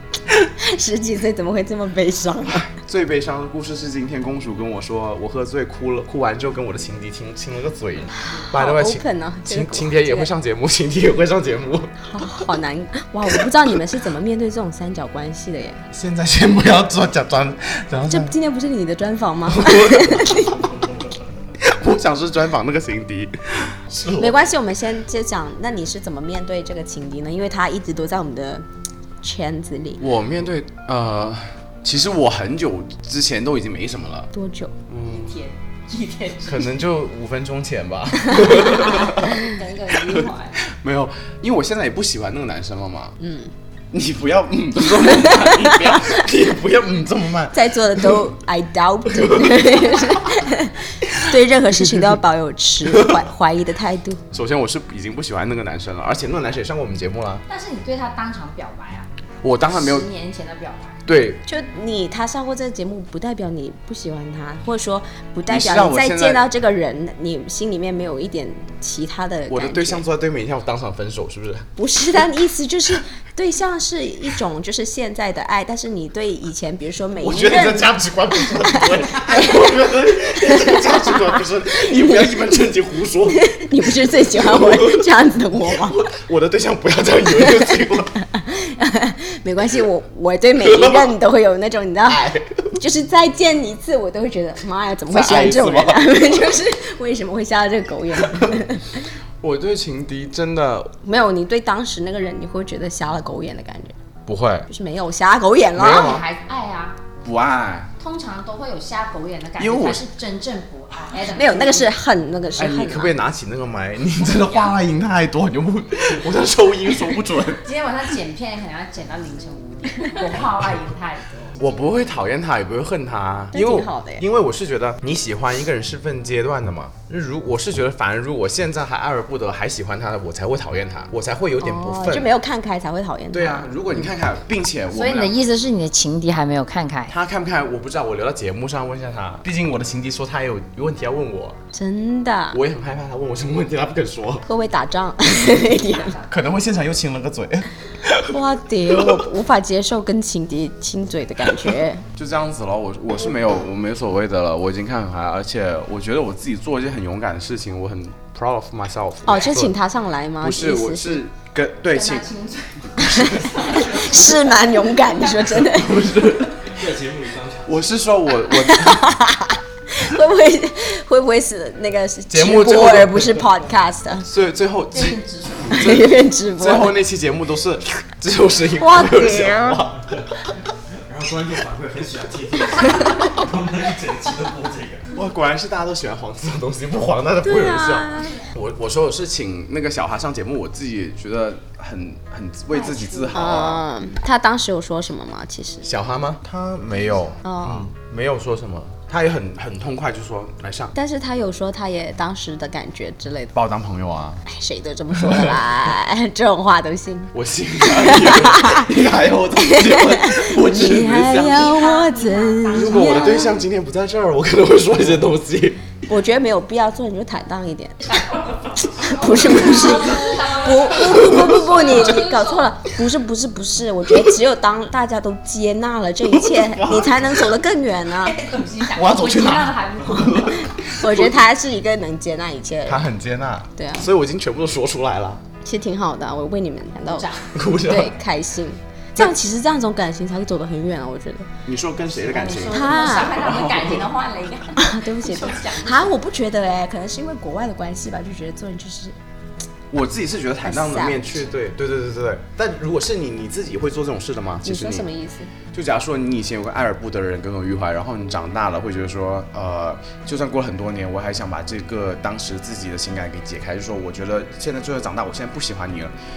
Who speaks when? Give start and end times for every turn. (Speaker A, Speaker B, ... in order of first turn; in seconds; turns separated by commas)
Speaker A: 0.4-2.7, Speaker B: 2.6-11.9, Speaker A: 8.3-10.3, Speaker A: 12.1-15.8, Speaker B: 15.9-18.3, Speaker A: 18.1-20.6, Speaker B: 19.5-20.5, Speaker B: 21.6-24.3, Speaker A: 24.1-28.6, Speaker A: 29.2-30.0, Speaker B: 30.0-34.3, Speaker A: 34.3-34.7, Speaker B: 34.9-35.4, Speaker C: 35.0-36.8, Speaker B: 36.4-39.4, Speaker C: 38.6-40.6, Speaker B: 39.9-43.2, Speaker A: 43.2-43.5, Speaker B: 43.9-48.2, Speaker A: 47.5-54.2, Speaker B: 49.3-50.1, Speaker B: 54.3-57.4, Speaker C: 57.5-59.1, Speaker B: 59.4-60.1, Speaker C: 59.6-61.0, Speaker B: 61.1-61.4, Speaker A: 61.4-70.0, Speaker B: 65.5-66.4, Speaker B: 69.5-71.7, Speaker A: 71.8-77.9, Speaker B: 77.2-85.1, Speaker A: 78.6-79.7, Speaker A: 80.4-81.1, Speaker A: 82.0-82.3, Speaker A: 83.3-86.1, Speaker B: 85.7-88.2, Speaker A: 87.3-99.0, Speaker B: 90.6-91.1, Speaker B: 92.1-92.7, Speaker B: 95.1-96.0, Speaker B: 99.4-100.9, Speaker A: 101.0-103.9, Speaker B: 104.3-104.7, Speaker A: 104.7-106.2, Speaker B: 105.8-106.2, Speaker C: 105.9-107.0, Speaker B: 107.2-107.9, Speaker C: 108.0-111.9, Speaker B: 109.6-110.0, Speaker A: 111.3-113.1, Speaker B: 112.6-117.6, Speaker C: 117.6-121.7, Speaker B: 121.6-132.3, Speaker A: 123.5-124.2, Speaker A: 131.6-134.0, Speaker B: 133.3-135.3, Speaker C: 134.9-137.1, Speaker B: 137.1-141.6, Speaker A: 141.7-142.6, Speaker B: 142.5-144.5, Speaker A: 144.5-146.2, Speaker C: 145.9-146.3, Speaker B: 146.3-148.3, Speaker A: 148.3-152.0, Speaker B: 148.9-149.2, Speaker B: 152.2-159.8, Speaker A: 159.2-161.2, Speaker B: 160.4-162.3, Speaker C: 161.9-164.3, Speaker B: 162.9-164.1, Speaker A: 163.1-166.1, Speaker B: 165.6-166.8, Speaker D: 166.6-167.9, Speaker B: 167.6-169.1, Speaker A: 168.6-174.3, Speaker B: 172.3-173.4, Speaker B: 174.2-180.2, Speaker C: 174.9-175.8, Speaker A: 175.7-176.9, Speaker A: 178.8-179.8, Speaker D: 181.1-185.1, Speaker B: 185.1-193.8, Speaker A: 187.4-188.5, Speaker C: 192.7-193.5, Speaker A: 193.3-195.9, Speaker B: 195.8-200.9, Speaker A: 197.4-197.9, Speaker A: 200.9-203.5, Speaker B: 203.5-204.4, Speaker A: 204.4-207.3, Speaker B: 205.2-205.7, Speaker B: 207.3-211.7, Speaker A: 207.9-208.9, Speaker A: 209.6-213.6, Speaker C: 211.4-213.6, Speaker B: 212.7-215.8, Speaker A: 216.1-228.4, Speaker C: 219.6-220.6, Speaker B: 220.9-222.0, Speaker C: 222.0-222.7, Speaker B: 226.3-227.4, Speaker C: 228.2-230.6, Speaker B: 228.9-231.4, Speaker A: 230.5-233.0, Speaker B: 232.9-235.4, Speaker A: 233.8-234.1, Speaker A: 235.6-237.2, Speaker C: 237.1-237.5, Speaker B: 237.5-238.1, Speaker A: 237.8-241.5, Speaker B: 241.7-244.0, Speaker C: 242.2-246.1, Speaker A: 242.7-243.4, Speaker A: 244.8-249.1, Speaker B: 249.9-255.1, Speaker A: 250.6-251.5, Speaker A: 254.6-255.5, Speaker B: 255.7-266.1